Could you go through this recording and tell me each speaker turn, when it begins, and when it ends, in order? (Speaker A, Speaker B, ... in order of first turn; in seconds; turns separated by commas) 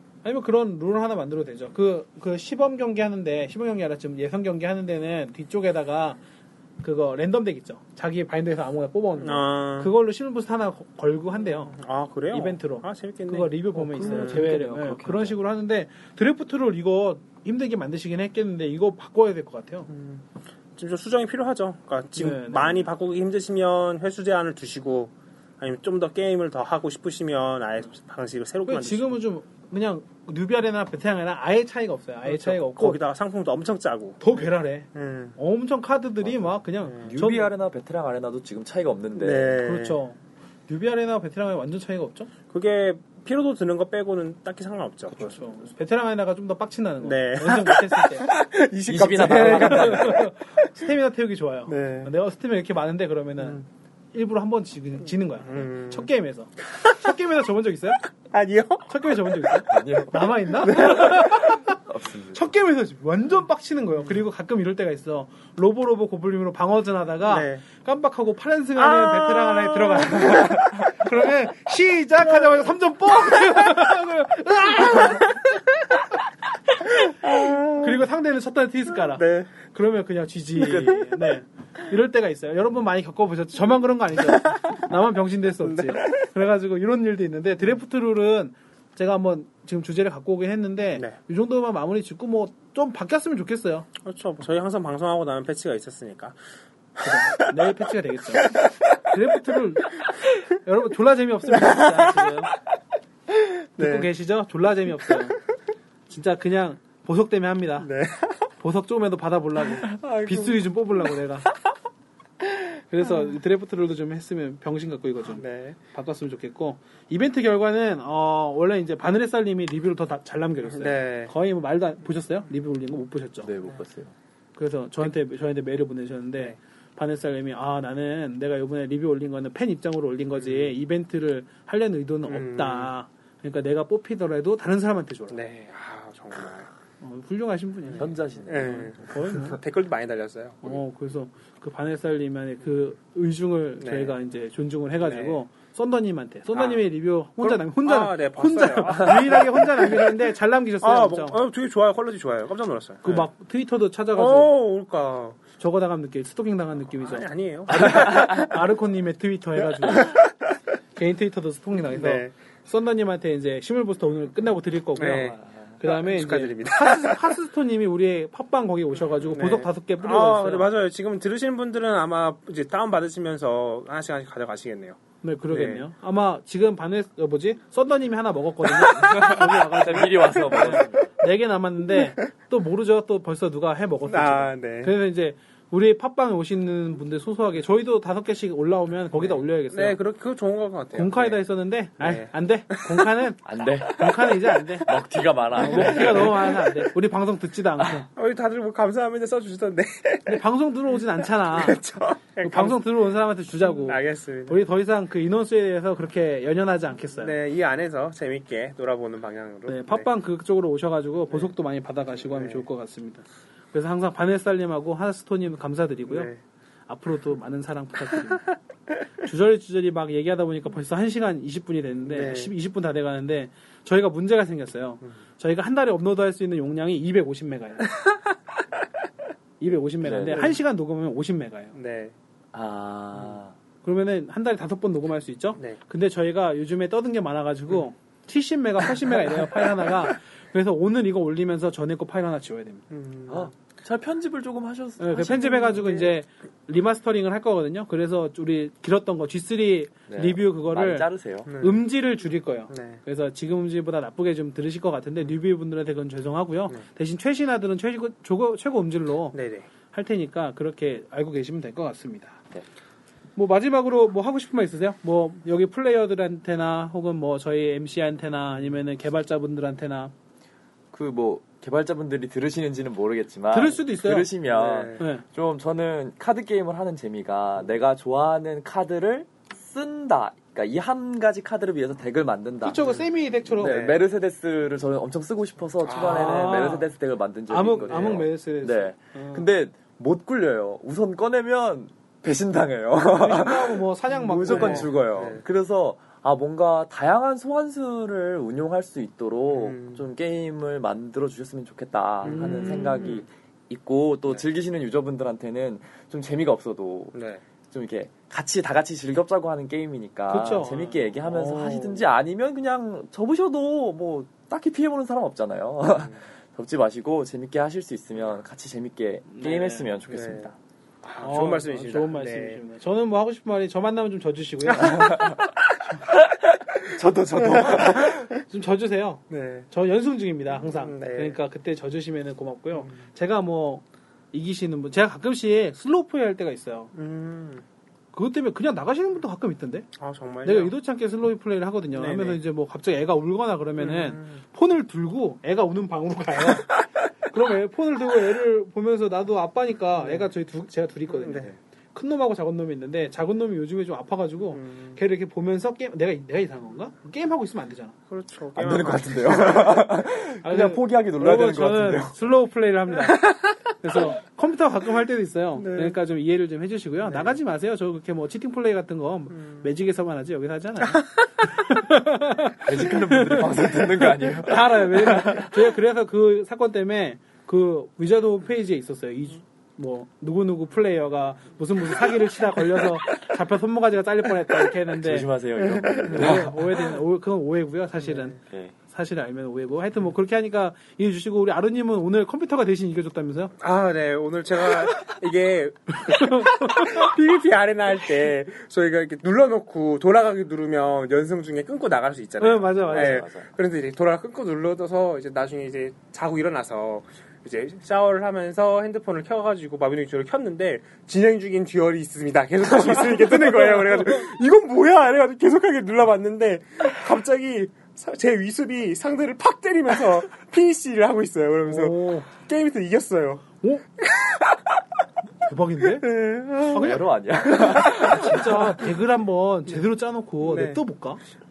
Speaker A: 0.2-6.2, Speaker A: 6.8-11.8, Speaker B: 9.2-9.9, Speaker B: 11.7-13.5, Speaker A: 12.3-19.9, Speaker C: 13.7-15.4, Speaker B: 14.0-14.5, Speaker B: 19.9-29.2, Speaker A: 22.2-22.9, Speaker A: 28.6-33.0, Speaker B: 32.3-35.4, Speaker A: 34.2-37.5, Speaker C: 36.2-36.5, Speaker B: 36.9-37.1, Speaker C: 37.0-39.6, Speaker B: 39.2-40.0, Speaker A: 39.6-42.3, Speaker B: 42.5-45.5, Speaker A: 45.1-48.3, Speaker B: 47.0-50.7, Speaker C: 48.9-50.3, Speaker A: 49.3-53.6, Speaker B: 51.7-52.1, Speaker B: 53.4-53.6, Speaker A: 54.1-58.0, Speaker B: 55.5-56.1, Speaker B: 56.8-57.1, Speaker B: 58.3-59.5, Speaker A: 58.9-61.8, Speaker C: 59.7-61.2, Speaker B: 60.6-61.4, Speaker C: 61.9-62.5, Speaker A: 62.3-75.5, Speaker B: 67.3-67.6, Speaker B: 68.8-71.1, Speaker B: 72.3-73.8, Speaker B: 74.8-75.3, Speaker B: 76.8-78.0, Speaker A: 77.7-93.9, Speaker B: 79.0-79.6, Speaker C: 80.6-81.0, Speaker B: 84.3-84.7, Speaker B: 85.6-86.3, Speaker B: 94.0-96.4, Speaker B: 97.0-97.5, Speaker A: 97.0-100.0, Speaker A: 100.6-102.5, Speaker B: 101.5-102.4, Speaker B: 103.3-104.1, Speaker A: 103.8-105.4, Speaker A: 106.1-107.9, Speaker B: 107.8-108.5, Speaker A: 108.6-111.5, Speaker B: 109.8-110.7, Speaker A: 112.9-123.5, Speaker B: 115.4-115.8, Speaker B: 120.7-121.3, Speaker C: 123.4-124.1, Speaker A: 124.6-135.4, Speaker B: 130.4-130.7, Speaker B: 132.3-132.9, Speaker B: 135.3-136.7, Speaker A: 137.0-138.2, Speaker B: 137.9-140.8, Speaker C: 138.0-139.0, Speaker A: 138.7-139.6, Speaker A: 140.6-151.4, Speaker B: 143.8-144.2, Speaker B: 145.0-145.4, Speaker B: 146.5-150.2, Speaker B: 150.8-153.3, Speaker A: 153.0-154.5, Speaker B: 154.1-155.4, Speaker A: 155.6-160.2, Speaker B: 157.0-158.5, Speaker B: 159.8-160.3, Speaker A: 160.9-170.7, Speaker B: 161.9-162.3, Speaker B: 165.0-167.3, Speaker B: 169.3-175.9, Speaker A: 175.2-190.0, Speaker B: 178.7-180.8, Speaker C: 179.0-181.0, Speaker B: 184.1-184.9, Speaker B: 189.2-191.4, Speaker A: 190.9-194.9, Speaker B: 192.0-193.3, Speaker C: 193.4-194.1, Speaker B: 194.0-194.5, Speaker C: 194.9-196.5, Speaker A: 195.6-198.1, Speaker B: 195.6-196.9, Speaker B: 198.2-200.4, Speaker A: 200.3-201.8, Speaker B: 201.2-202.8, Speaker A: 202.4-207.3, Speaker B: 203.6-204.6, Speaker B: 207.2-210.1, Speaker A: 209.7-216.3, Speaker B: 212.3-212.7, Speaker B: 216.1-216.4, Speaker A: 216.9-218.5, Speaker A: 219.2-227.9, Speaker B: 222.1-222.5, Speaker B: 227.9-228.2, Speaker A: 229.6-231.8, Speaker C: 230.0-230.5, Speaker B: 231.8-232.1, Speaker C: 232.5-233.5, Speaker A: 233.8-242.9, Speaker B: 239.1-239.7, Speaker B: 242.9-243.5, Speaker C: 243.3-245.9, Speaker A: 245.0-259.4, Speaker B: 245.8-246.1, Speaker C: 250.1-251.5, Speaker B: 251.5-251.8, Speaker B: 252.7-253.0, Speaker B: 259.3-259.7, Speaker A: 259.9-262.4, Speaker A: 263.4-270.1, Speaker C: 270.9-282.9, Speaker A: 273.5-274.3, Speaker B: 274.5-275.0, Speaker A: 275.0-275.2, Speaker A: 282.6-284.0, Speaker C: 283.5-307.1, Speaker B: 285.8-286.6, Speaker A: 285.9-286.9, Speaker A: 287.5-289.5, Speaker B: 287.8-288.2, Speaker A: 293.1-294.9, Speaker B: 294.4-295.4, Speaker B: 299.5-300.0, Speaker B: 302.2-303.3, Speaker A: 302.2-303.2, Speaker B: 307.1-307.4, Speaker C: 307.7-320.6, Speaker A: 310.3-312.0, Speaker A: 319.3-319.9, Speaker B: 320.1-320.5, Speaker B: 321.0-322.6, Speaker A: 321.2-325.3, Speaker C: 324.8-325.5, Speaker C: 326.1-328.3, Speaker B: 327.4-328.2, Speaker A: 328.4-336.9, Speaker B: 329.3-329.7, Speaker B: 330.6-331.4, Speaker B: 332.8-333.0, Speaker B: 336.9-337.6, Speaker A: 338.1-339.9, Speaker B: 340.0-340.8, Speaker A: 340.4-358.0, Speaker B: 341.9-342.4, Speaker B: 343.8-344.4, Speaker B: 350.0-350.3, Speaker B: 351.1-351.6, Speaker B: 354.5-355.0, Speaker B: 358.1-359.9, Speaker C: 358.6-362.1, Speaker A: 360.4-385.3, Speaker B: 363.0-363.6, Speaker B: 365.6-366.0, Speaker B: 367.1-367.4, Speaker B: 369.4-369.7, Speaker C: 372.6-375.7, Speaker C: 384.9-386.9, Speaker B: 385.6-386.5, Speaker A: 386.1-393.5, Speaker B: 388.1-388.3, Speaker C: 388.5-388.7, Speaker B: 393.6-423.5, Speaker A: 396.0-397.1, Speaker A: 402.4-403.2, Speaker C: 402.9-403.5, Speaker A: 413.5-414.2, Speaker A: 421.7-422.3, Speaker B: 424.0-424.8, Speaker A: 425.4-426.1, Speaker B: 425.8-428.4, Speaker A: 426.7-431.2, Speaker C: 426.7-428.5, Speaker B: 430.4-430.8